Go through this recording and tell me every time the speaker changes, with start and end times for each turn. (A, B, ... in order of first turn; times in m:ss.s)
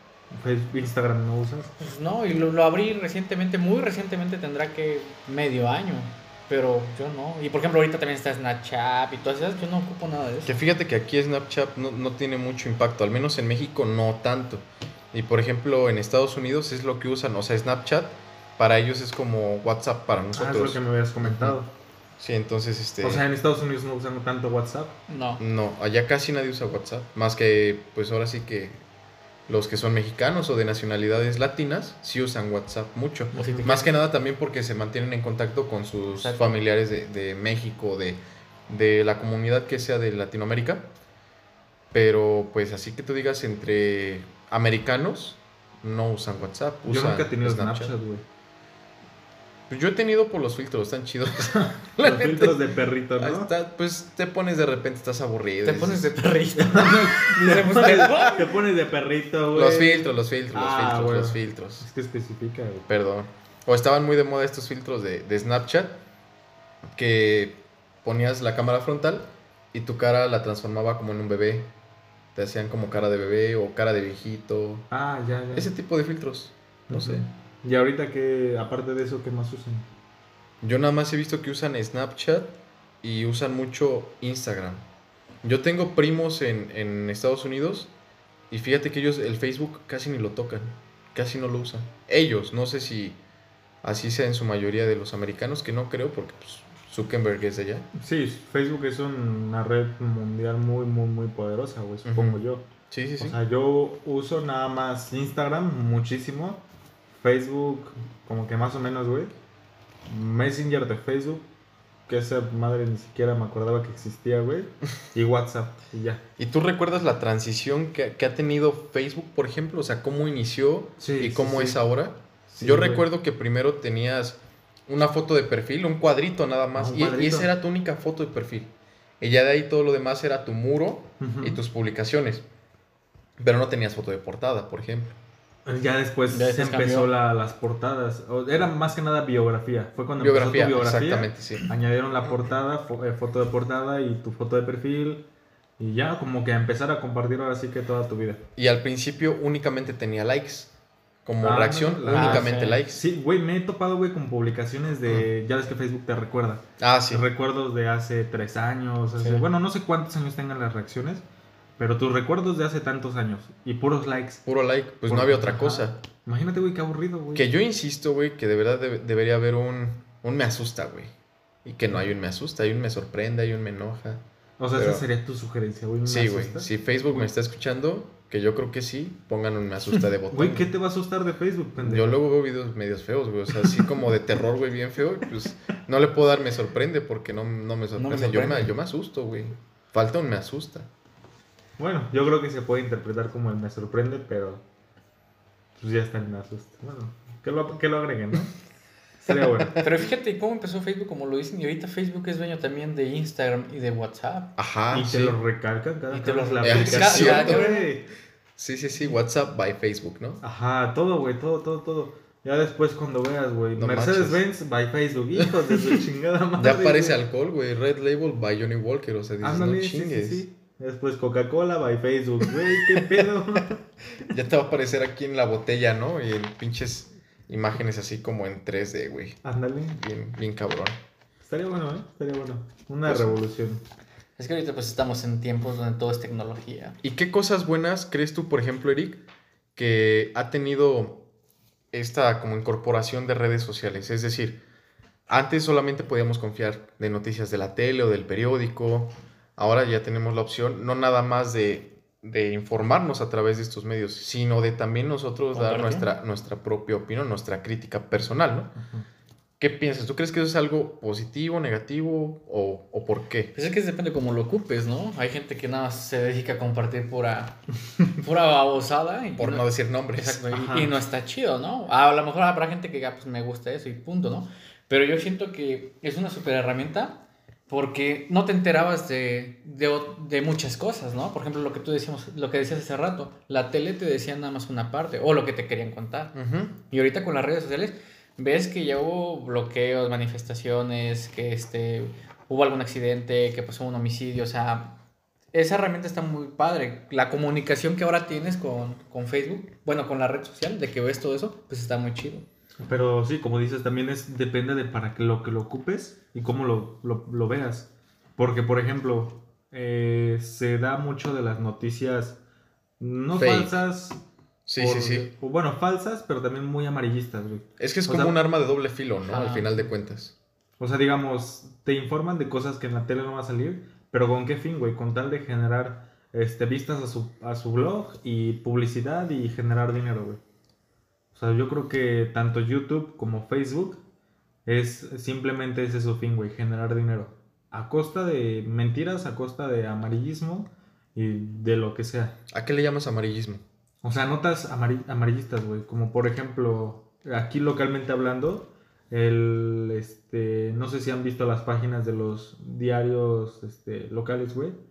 0:00.3-0:01.8 A
0:01.8-0:10.5 B
0:10.4-0:21.6 C
0:20.3-0:21.7 A
0:22.2-0:23.2 C
0:23.0-0:25.0 A
0:25.1-0:25.4 B
0:25.4-0:28.8 C
0:29.5-0:40.9 C
0:33.3-0:33.8 A
0:33.3-0:33.9 B
0:36.1-0:36.6 B
0:41.9-0:47.9 C
0:46.9-0:48.2 A
0:49.7-0:52.6 C
0:51.4-0:53.5 A
0:53.2-0:56.1 C
0:55.6-0:58.5 B
0:56.6-1:02.9 A
0:59.5-1:01.9 C
1:02.9-1:06.0 C
1:06.9-1:11.7 C
1:12.3-1:14.8 C
1:14.9-1:15.7 A
1:15.5-1:17.2 C
1:16.9-1:19.9 A
1:20.6-1:24.8 C
1:25.4-1:27.9 C
1:28.5-1:33.2 C
1:33.8-1:37.9 C
1:37.9-1:42.6 A
1:42.0-1:43.4 C
1:43.2-1:49.3 A
1:50.1-1:51.5 A
1:52.1-1:56.2 A
1:56.4-2:12.4 C
2:01.0-2:01.8 A
2:02.5-2:03.0 A
2:06.7-2:07.5 A
2:11.2-2:11.6 A
2:13.4-2:15.2 C
2:15.6-2:25.2 A
2:16.3-2:17.1 B
2:20.2-2:21.7 C
2:25.8-2:28.4 A
2:28.6-2:30.7 C
2:31.2-2:33.0 C
2:31.4-2:41.2 A
2:32.1-2:32.8 B
2:36.8-2:37.2 C
2:39.2-2:39.4 B
2:41.8-2:44.4 A
2:44.4-2:46.0 C
2:45.1-2:47.5 A
2:47.3-2:51.1 C
2:51.6-2:55.0 C
2:54.6-2:57.3 A
2:56.0-3:00.7 C
3:00.3-3:02.2 A
3:01.8-3:10.9 C
3:08.0-3:08.7 B
3:11.8-3:14.6 A
3:15.8-3:18.5 A
3:19.2-3:19.8 A
3:19.6-3:19.8 C
3:19.8-3:24.6 B
3:24.6-3:25.4 C
3:24.9-3:28.1 A
3:26.1-3:27.9 B
3:26.6-3:27.7 C
3:28.6-3:30.4 C
3:30.4-3:37.2 A
3:33.8-3:34.4 C
3:35.4-3:36.0 C
3:36.6-3:40.4 C
3:39.4-3:43.8 A
3:42.8-3:43.3 C
3:44.3-3:49.4 C
3:49.4-3:50.0 A
3:49.9-3:51.0 C
3:51.4-3:53.8 A
3:53.0-3:53.4 C
3:54.4-3:57.0 B
3:57.0-3:59.2 C
3:59.8-4:01.2 C
4:01.9-4:04.6 C
4:05.3-4:18.7 C
4:15.5-4:16.1 B
4:18.8-4:19.0 A
4:19.6-4:23.5 C
4:23.5-4:27.6 B
4:28.2-4:46.4 B
4:29.4-4:30.4 C
4:30.5-4:31.0 A
4:46.3-4:46.7 C
4:46.9-4:55.0 B
4:55.5-5:02.4 B
5:02.8-5:12.4 A
5:13.0-5:14.2 A
5:13.3-5:13.8 C
5:14.6-5:15.3 C
5:14.8-5:18.4 A
5:17.8-5:20.3 C
5:19.2-5:19.8 B
5:20.8-5:30.4 A
5:31.3-5:34.0 A
5:34.6-5:42.4 A
5:42.5-5:43.6 C
5:44.0-5:54.8 A